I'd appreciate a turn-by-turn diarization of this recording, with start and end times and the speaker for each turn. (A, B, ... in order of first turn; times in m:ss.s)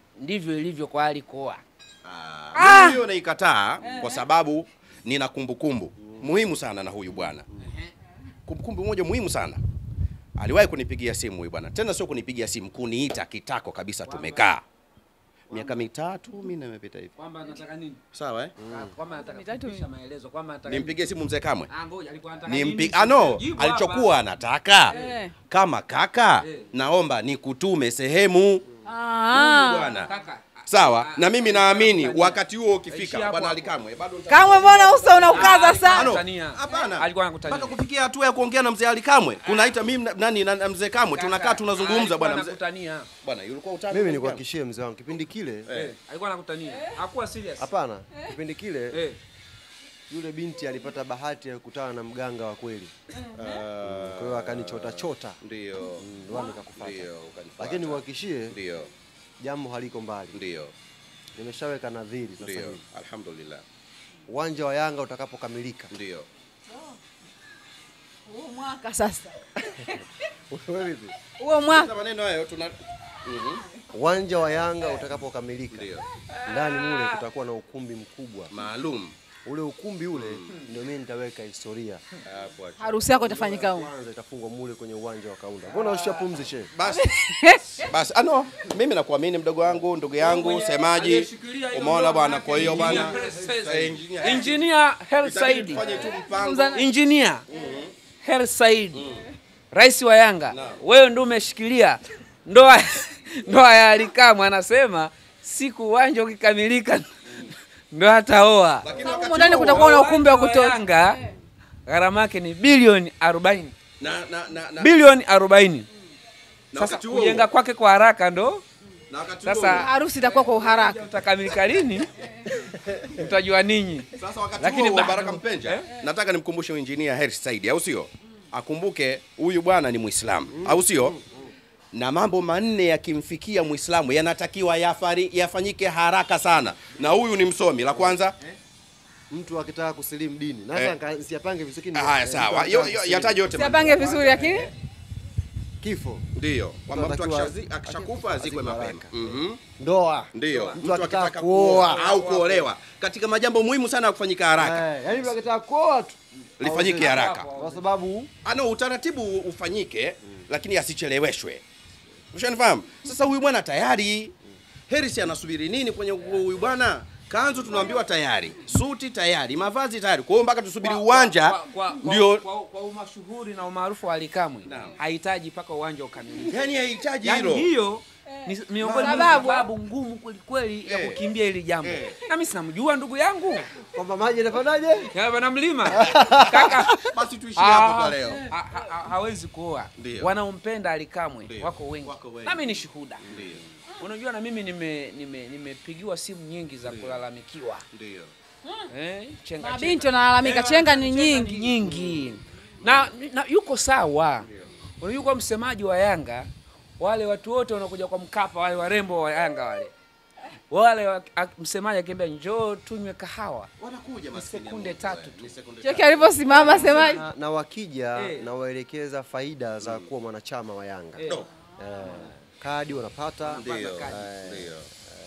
0:00.2-0:01.6 A
0:02.0-0:07.5 B
0:02.6-0:03.0 C
0:03.8-0:04.2 C
0:08.5-0:09.6 B
0:10.4-0:14.6 B
0:14.0-0:14.5 A
0:15.5-0:17.1 B
0:15.5-0:15.8 A
0:17.2-0:18.0 A
0:18.1-0:18.5 B
0:18.6-0:18.9 D
0:18.6-0:21.0 A
0:19.1-0:19.8 C
0:20.7-0:21.7 B
0:21.7-0:24.1 A
0:22.5-0:25.0 B
0:24.9-0:25.3 C
0:24.9-0:25.2 A
0:25.5-0:28.6 B
0:26.4-0:26.7 A
0:28.9-0:30.1 C
0:29.3-0:30.1 B
0:30.0-0:33.8 A
0:30.7-0:42.6 B
0:34.3-0:36.1 C
0:35.2-0:37.8 A
0:39.4-0:39.8 A
0:41.1-0:43.1 A
0:43.2-0:44.4 B
0:43.9-0:45.7 D
0:45.7-0:46.0 B
0:45.7-0:47.7 A
0:47.6-0:49.0 D
0:48.9-0:49.2 A
0:50.1-0:52.9 D
0:53.3-0:56.1 B
0:53.8-0:55.4 D
0:56.0-0:58.6 D
0:56.7-0:58.9 B
0:59.4-1:00.4 D
1:00.3-1:00.7 B
1:01.4-1:02.8 D
1:02.4-1:03.6 B
1:04.3-1:05.9 D
1:05.9-1:06.3 B
1:08.3-1:10.0 C
1:10.5-1:11.1 D
1:11.4-1:11.9 C
1:11.6-1:13.6 B
1:13.9-1:15.9 D
1:15.7-1:16.1 B
1:16.3-1:17.2 A
1:16.5-1:18.5 D
1:18.5-1:19.1 B
1:19.4-1:22.0 D
1:20.1-1:20.5 B
1:22.2-1:23.1 B
1:22.8-1:23.9 C
1:23.1-1:26.7 D
1:25.7-1:26.4 A
1:26.7-1:27.1 B
1:26.9-1:27.9 C
1:27.8-1:34.6 B
1:30.2-1:35.9 A
1:32.6-1:33.8 D
1:35.2-1:36.8 B
1:35.8-1:36.8 C
1:36.7-1:37.4 A
1:37.5-1:37.9 B
1:38.2-1:39.1 A
1:38.9-1:39.3 B
1:39.7-1:48.9 A
1:40.5-1:40.8 B
1:48.8-1:50.0 B
1:48.9-1:51.3 C
1:49.6-1:51.2 A
1:51.9-1:53.8 A
1:54.0-1:54.9 B
1:54.8-1:55.9 A
1:56.7-1:57.5 B
1:56.7-1:58.6 A
1:59.1-1:59.9 B
1:59.4-2:05.9 A
1:59.7-2:01.0 C
2:04.2-2:11.2 B
2:10.5-2:11.5 D
2:11.9-2:18.4 B
2:19.3-2:23.4 D
2:21.9-2:24.7 B
2:23.5-2:24.7 C
2:25.8-2:26.3 D
2:26.4-2:29.6 B
2:26.9-2:29.2 D
2:29.8-2:32.2 D
2:30.3-2:34.8 B
2:30.5-2:30.8 A
2:31.9-2:32.7 A
2:34.6-2:38.3 D
2:36.6-2:37.5 B
2:36.9-2:37.8 A
2:38.4-2:41.6 B
2:42.3-2:44.4 B
2:44.9-2:52.4 B
2:50.8-2:56.6 A
2:54.7-2:55.0 B
2:56.4-2:57.7 B
2:57.2-3:03.7 A
2:58.4-2:59.7 C
2:58.8-2:59.5 B
3:00.9-3:01.2 B
3:01.8-3:02.2 B
3:03.9-3:05.1 D
3:05.1-3:07.0 A
3:05.8-3:07.0 D
3:07.0-3:08.4 B
3:07.6-3:13.2 A
3:10.0-3:10.3 B
3:11.5-3:13.6 B
3:13.2-3:13.6 D
3:14.0-3:17.8 A
3:16.9-3:17.2 B
3:17.9-3:18.3 B
3:18.9-3:24.5 A
3:19.6-3:21.7 C
3:21.8-3:22.3 B
3:24.4-3:24.7 B
3:25.0-3:29.9 A
3:30.7-3:33.7 A
3:33.8-3:37.0 B
3:34.3-3:35.5 A
3:35.8-3:37.2 C
3:36.6-3:44.8 D
3:38.2-3:38.5 A
3:39.8-3:40.1 B
3:41.2-3:41.5 A
3:42.0-3:42.3 A
3:43.5-3:44.2 A
3:43.5-3:44.9 B